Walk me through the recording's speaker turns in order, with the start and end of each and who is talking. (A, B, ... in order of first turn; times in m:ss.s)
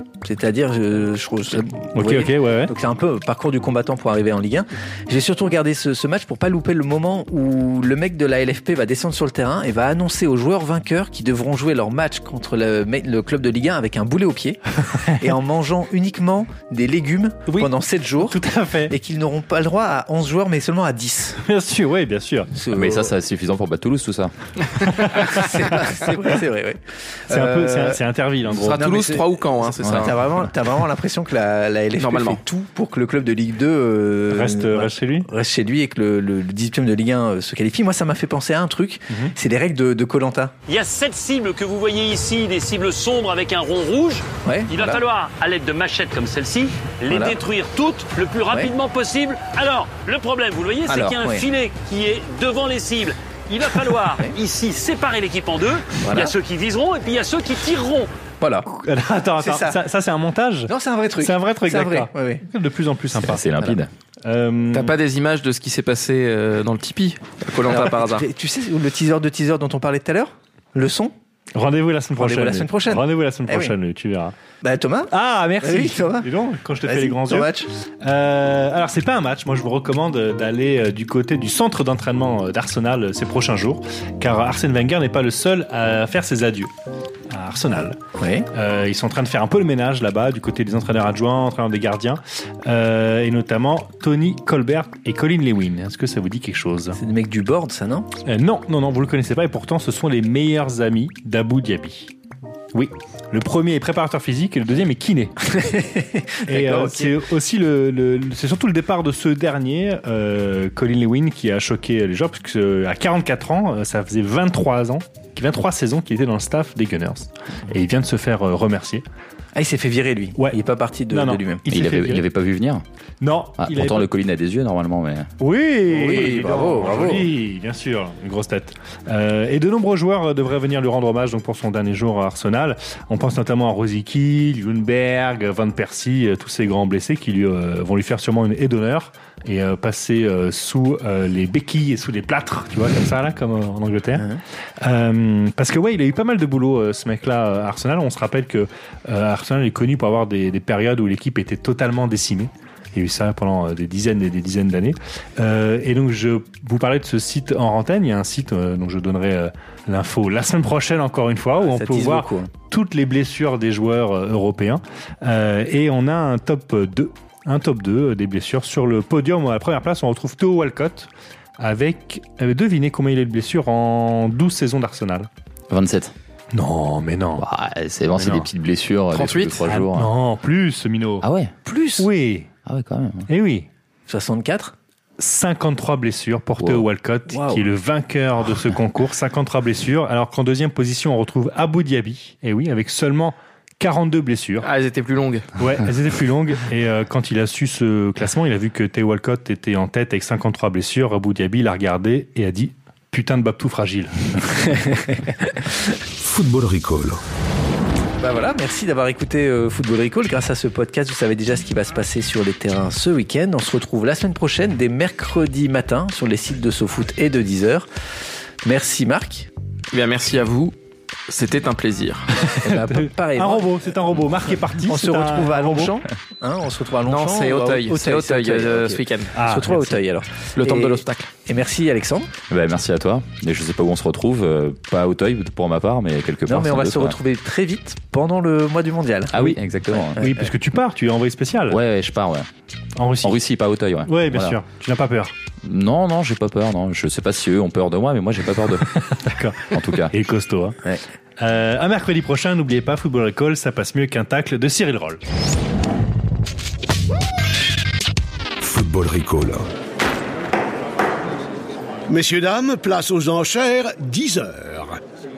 0:00.2-0:21.4 A
0:02.0-0:02.7 B
0:18.3-0:18.9 B
0:21.4-0:22.5 B
0:22.5-0:23.1 A
0:22.7-0:24.3 C
0:24.9-0:25.7 B
0:25.1-0:28.0 A
0:27.3-0:29.0 B
0:28.5-0:30.2 D
0:28.6-0:40.5 A
0:32.0-0:32.4 D
0:34.3-0:35.3 B
0:40.7-0:58.1 E
0:44.4-0:45.0 A
0:47.1-0:47.4 A
0:50.9-0:51.5 A
0:54.0-0:54.4 A
0:56.0-0:56.3 A
0:58.4-0:58.7 A
0:58.7-1:03.7 B
0:59.4-0:59.8 A
1:00.7-1:02.4 A
1:03.2-1:03.9 C
1:04.2-1:05.0 B
1:04.7-1:08.2 D
1:07.7-1:11.1 A
1:11.6-1:14.3 B
1:12.2-1:13.8 A
1:14.6-1:17.7 A
1:15.1-1:26.7 B
1:27.3-1:28.0 B
1:28.2-1:28.5 A
1:28.5-1:37.0 B
1:36.9-1:38.1 A
1:38.3-1:42.1 B
1:42.7-1:45.4 B
1:45.5-1:47.2 A
1:46.5-1:59.0 B
1:59.6-2:01.6 A
2:00.4-2:02.2 B
2:01.7-2:02.8 C
2:03.2-2:04.1 B
2:03.6-2:05.3 C
2:05.4-2:24.3 B
2:05.9-2:07.3 A
2:24.8-2:55.3 B
2:41.6-2:42.5 A
2:55.7-2:56.1 C
2:56.5-2:57.4 B
2:57.4-3:00.1 C
2:58.2-2:58.5 B
2:59.1-2:59.6 D
2:59.7-3:01.2 B
3:01.2-3:01.5 C
3:01.7-3:02.1 A
3:02.0-3:02.5 B
3:02.7-3:03.3 C
3:03.3-3:03.7 B
3:04.1-3:04.8 A
3:05.2-3:14.7 B
3:06.6-3:06.9 C
3:07.3-3:07.7 A
3:14.6-3:15.5 D
3:15.6-3:24.8 B
3:26.2-3:27.2 F
3:28.2-3:37.9 A
3:38.6-3:39.5 A
3:39.9-3:40.8 D
3:41.3-3:42.3 D
3:42.4-3:52.3 A
3:42.4-3:46.0 B
3:47.1-3:49.4 D
3:49.3-3:49.8 B
3:50.6-3:51.3 D
3:52.5-3:57.2 C
3:56.5-3:59.6 A
3:59.3-4:00.2 C
4:00.2-4:00.5 A
4:00.2-4:01.8 B
4:01.7-4:02.5 C
4:03.0-4:03.4 B
4:03.2-4:04.6 C
4:04.1-4:05.3 B
4:05.6-4:09.0 C
4:09.1-4:10.8 B
4:09.7-4:10.1 C
4:11.4-4:15.2 B
4:18.6-4:19.6 F
4:22.1-4:25.0 G